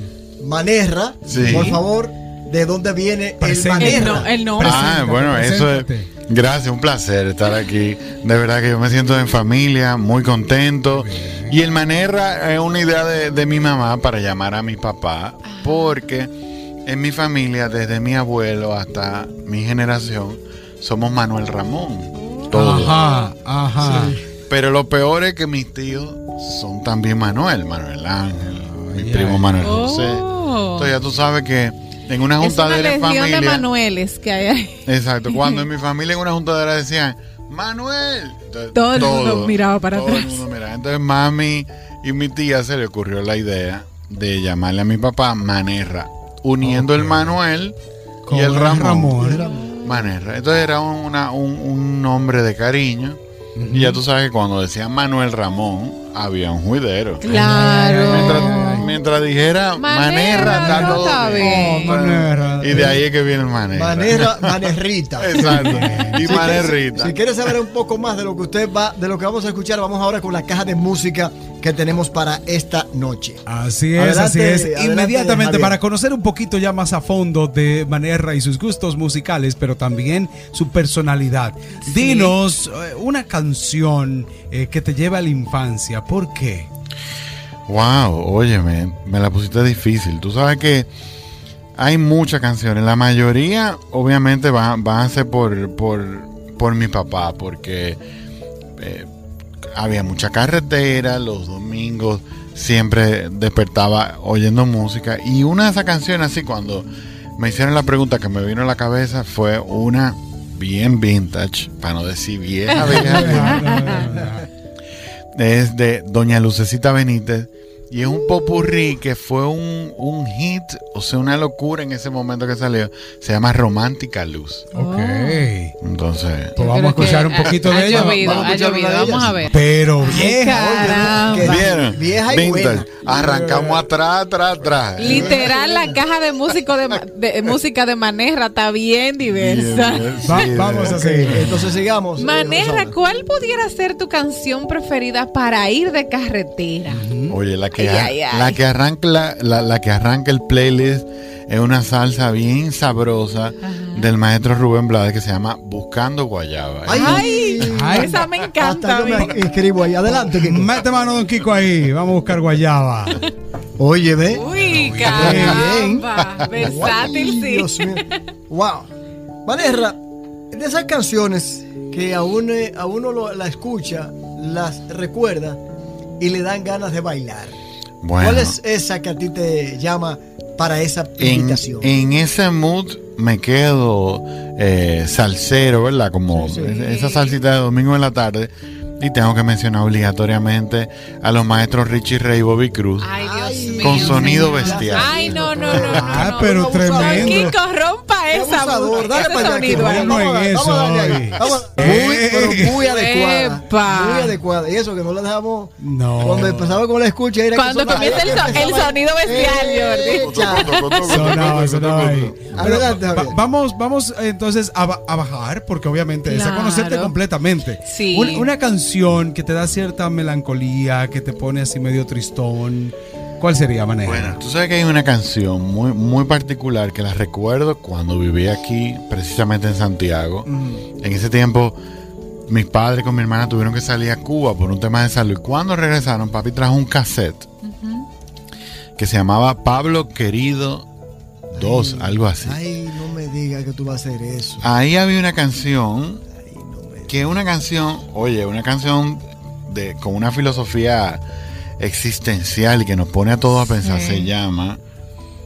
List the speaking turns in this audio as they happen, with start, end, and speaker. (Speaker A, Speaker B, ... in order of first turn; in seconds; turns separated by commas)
Speaker A: 0.4-4.3, Speaker B: 1.3-1.8, Speaker C: 1.3-1.8, Speaker C: 3.4-6.1, Speaker D: 3.8-5.0, Speaker B: 4.6-16.3, Speaker C: 10.9-11.6, Speaker D: 15.4-16.0, Speaker B: 16.9-23.1, Speaker C: 22.5-24.2, Speaker A: 23.8-24.2, Speaker B: 23.8-33.7, Speaker C: 28.7-29.8, Speaker D: 29.6-30.9, Speaker D: 32.4-35.6, Speaker B: 34.9-49.3, Speaker D: 38.7-40.4, Speaker C: 46.6-47.4, Speaker C: 48.3-49.5, Speaker A: 49.2-49.6, Speaker D: 49.4-50.1, Speaker B: 49.8-57.2, Speaker C: 53.6-54.0, Speaker D: 57.2-58.9, Speaker C: 57.3-58.9, Speaker B: 58.1-64.5, Speaker D: 59.8-62.0, Speaker C: 60.4-63.0, Speaker A: 62.7-63.0, Speaker A: 63.7-73.4, Speaker B: 65.2-67.2, Speaker C: 65.3-66.5, Speaker C: 73.5-86.7, Speaker A: 74.0-75.8, Speaker D: 81.8-82.3, Speaker B: 87.7-90.9, Speaker B: 91.8-98.0, Speaker B: 98.8-99.1, Speaker B: 99.8-113.8, Speaker C: 112.8-114.5, Speaker D: 112.9-114.1, Speaker B: 115.3-124.7, Speaker D: 124.7-125.5, Speaker C: 124.7-125.7, Speaker B: 125.8-126.5, Speaker C: 126.6-128.5, Speaker D: 126.6-131.6, Speaker A: 127.7-129.4, Speaker C: 129.5-131.7, Speaker A: 130.1-132.9, Speaker B: 131.4-135.6, Speaker C: 133.1-133.8, Speaker D: 135.0-140.4, Speaker A: 135.0-136.0, Speaker B: 139.3-141.6, Speaker C: 140.2-141.7, Speaker A: 140.9-142.9, Speaker D: 142.2-147.0, Speaker C: 146.9-147.4, Speaker B: 147.3-157.3, Speaker D: 147.8-148.6, Speaker D: 153.6-154.1, Speaker A: 156.8-160.7, Speaker D: 156.9-159.4, Speaker C: 157.6-158.2, Speaker C: 160.1-163.2, Speaker A: 163.8-164.4, Speaker D: 164.3-168.2, Speaker C: 164.6-165.8, Speaker A: 165.0-168.9, Speaker A: 169.5-170.0, Speaker A: 170.5-175.6, Speaker A: 176.2-177.6, Speaker B: 178.0-178.6, Speaker A: 178.2-181.9, Speaker B: 181.2-193.1, Speaker A: 186.3-186.8, Speaker D: 186.5-187.4, Speaker D: 193.0-200.2, Speaker A: 193.2-197.5, Speaker B: 193.8-195.9, Speaker C: 195.7-197.5, Speaker A: 198.3-211.0, Speaker C: 199.5-202.8, Speaker D: 202.8-204.4, Speaker C: 205.8-206.8, Speaker D: 207.5-211.3, Speaker B: 207.9-208.7, Speaker B: 210.0-212.9, Speaker C: 211.0-224.4, Speaker A: 212.5-213.4, Speaker D: 216.2-217.2, Speaker D: 217.8-218.5, Speaker B: 224.1-231.8, Speaker A: 230.5-230.8, Speaker B: 232.5-237.5, Speaker D: 237.6-238.1, Speaker B: 239.0-240.9, Speaker B: 241.5-242.6, Speaker A: 241.5-244.7, Speaker B: 244.6-246.2, Speaker A: 246.4-247.3, Speaker B: 247.1-251.2, Speaker B: 251.8-254.8, Speaker D: 253.6-254.3